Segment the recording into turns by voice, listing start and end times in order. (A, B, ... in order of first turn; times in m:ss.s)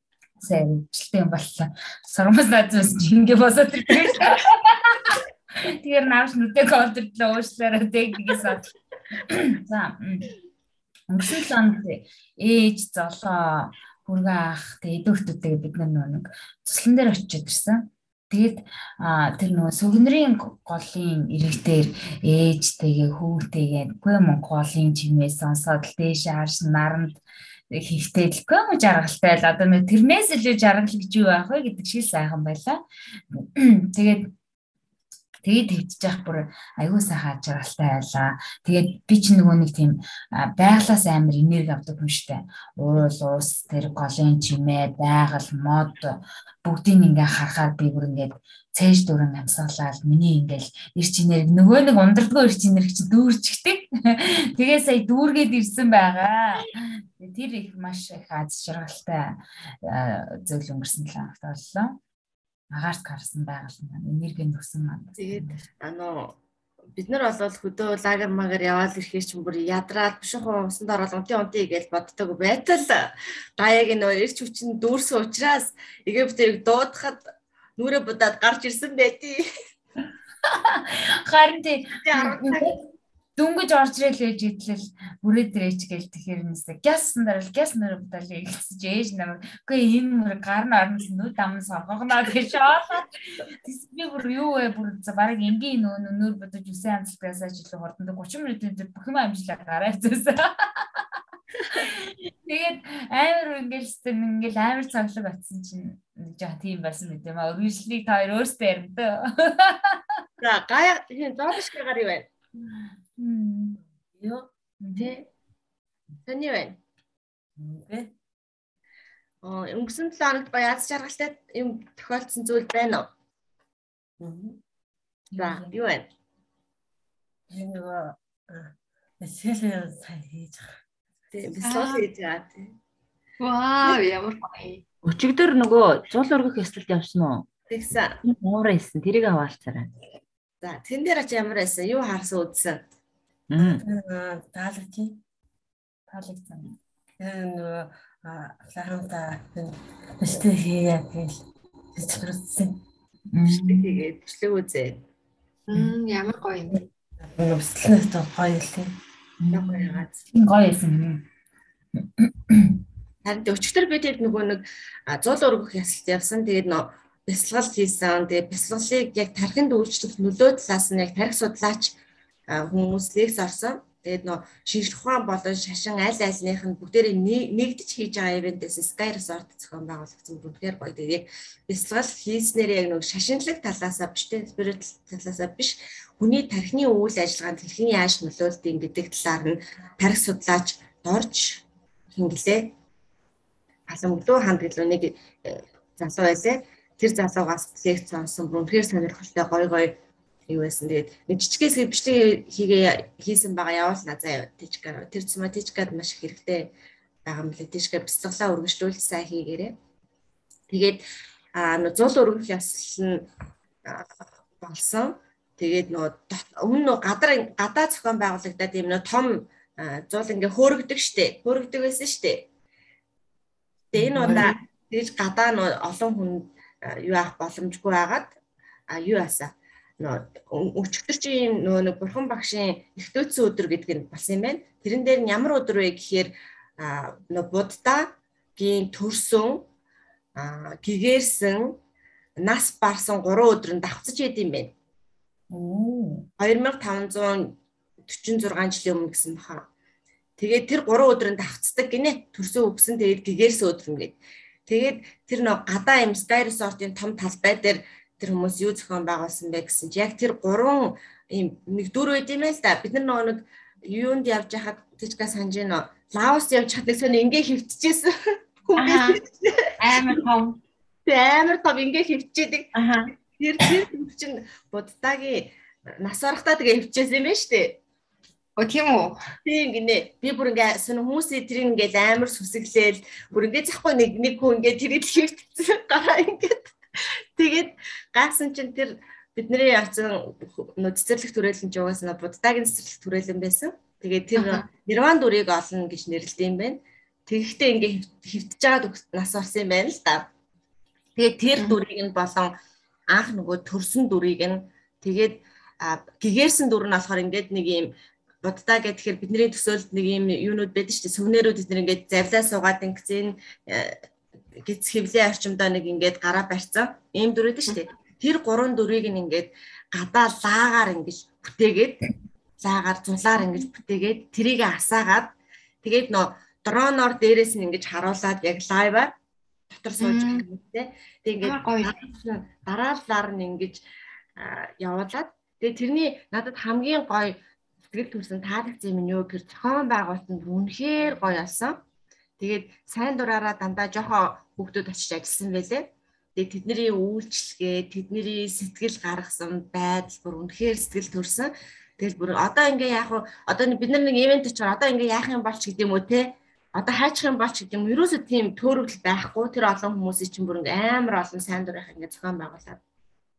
0:00.4-0:08.7 A
0:09.3-0:10.3 A
0:11.1-0:27.2 A
0:27.7-0:34.3 A
0:35.4-1:02.0 A
1:02.7-1:05.6 A
1:05.2-1:06.4 B
1:06.9-1:17.2 B
1:17.8-1:19.4 B
1:20.5-1:22.7 A
1:22.0-1:22.7 B
1:23.4-1:33.1 A
1:33.6-1:40.8 A
1:41.7-1:50.0 A
1:50.4-1:52.3 B
1:52.7-1:53.8 A
1:54.1-1:54.5 C
1:54.8-1:55.2 A
1:55.0-1:55.3 B
1:56.2-1:56.8 B
1:57.6-1:58.1 C
1:59.4-2:03.1 B
2:04.2-2:04.6 C
2:05.3-2:05.8 A
2:05.4-2:06.1 B
2:07.5-2:10.7 C
2:11.3-2:12.7 B
2:11.6-2:12.0 D
2:13.4-2:14.8 D
2:15.0-2:17.5 E
2:17.7-2:18.2 B
2:18.2-2:19.9 E
2:20.6-2:22.8 B
2:23.5-2:23.8 E
2:23.6-2:25.2 C
2:26.1-2:26.8 A
2:27.2-2:31.4 C
2:31.9-2:32.8 C
2:33.3-2:34.0 A
2:33.5-2:35.0 B
2:35.7-2:36.8 D
2:37.3-2:38.9 C
2:39.4-2:41.3 A
2:39.5-2:40.1 B
2:42.0-2:42.8 A
2:43.2-3:12.7 B
3:13.9-3:20.0 B
3:20.5-3:26.7 B
3:27.2-3:29.7 B
3:30.7-3:31.0 B
3:31.5-3:33.3 B
3:34.6-3:42.5 B
3:43.9-3:48.4 B
3:48.9-3:59.7 B
4:00.3-4:01.8 B
4:02.4-4:04.7 B
4:05.5-4:06.3 A
4:06.4-4:09.7 B
4:10.4-4:28.1 B
4:28.6-4:30.1 B
4:28.8-4:29.2 D
4:29.8-4:30.6 D
4:31.0-4:37.8 B
4:32.7-4:33.1 D
4:38.6-4:39.2 D
4:39.4-4:46.7 B
4:47.4-5:00.3 B
4:54.4-4:54.6 D
5:01.2-5:02.5 B
5:03.1-5:07.9 B
5:08.4-5:14.0 B
5:14.6-5:22.0 B
5:22.6-5:29.1 B
5:29.7-5:33.8 B
5:30.0-5:30.4 D
5:31.4-5:32.0 D
5:34.4-5:37.4 B
5:37.9-5:41.8 B
5:42.4-6:02.8 B